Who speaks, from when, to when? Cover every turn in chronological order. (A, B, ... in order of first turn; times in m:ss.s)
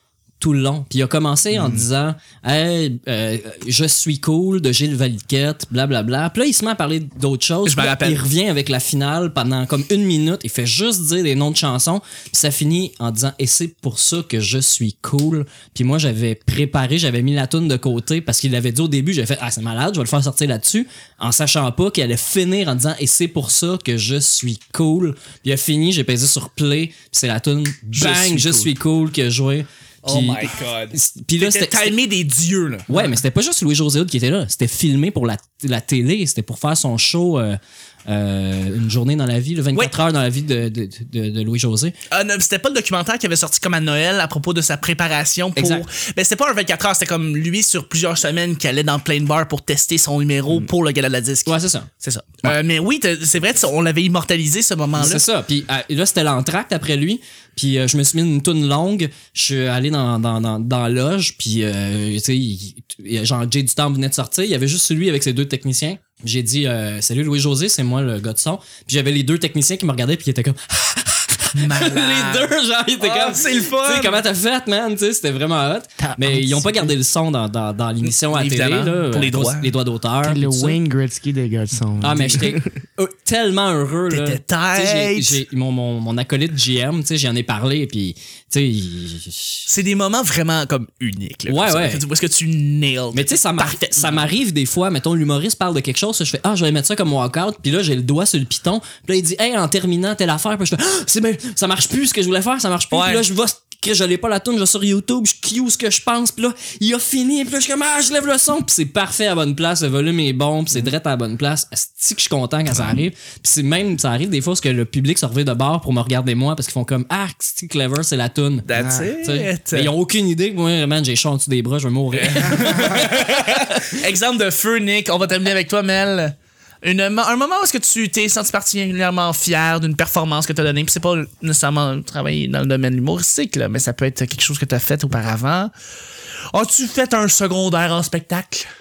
0:00.4-0:32.0 A
0:01.5-0:01.9 B
0:07.6-0:08.2 B
0:28.0-0:28.7 B
0:30.0-0:33.2 B
0:32.9-0:42.0 A
0:42.1-0:55.2 B
0:45.6-0:45.9 A
0:51.5-0:51.9 A
0:55.0-1:20.8 A
1:11.6-1:14.2 B
1:16.0-1:17.0 C
1:18.0-1:19.7 B
1:20.2-1:22.8 C
1:22.0-1:29.7 A
1:24.1-1:25.4 B
1:29.7-1:34.3 B
1:31.5-1:32.0 A
1:33.1-2:03.8 A
1:42.9-1:43.2 B
1:52.7-1:53.0 B
1:58.6-1:59.9 B
1:58.8-1:59.1 C
2:02.1-2:15.7 B
2:16.5-2:18.7 B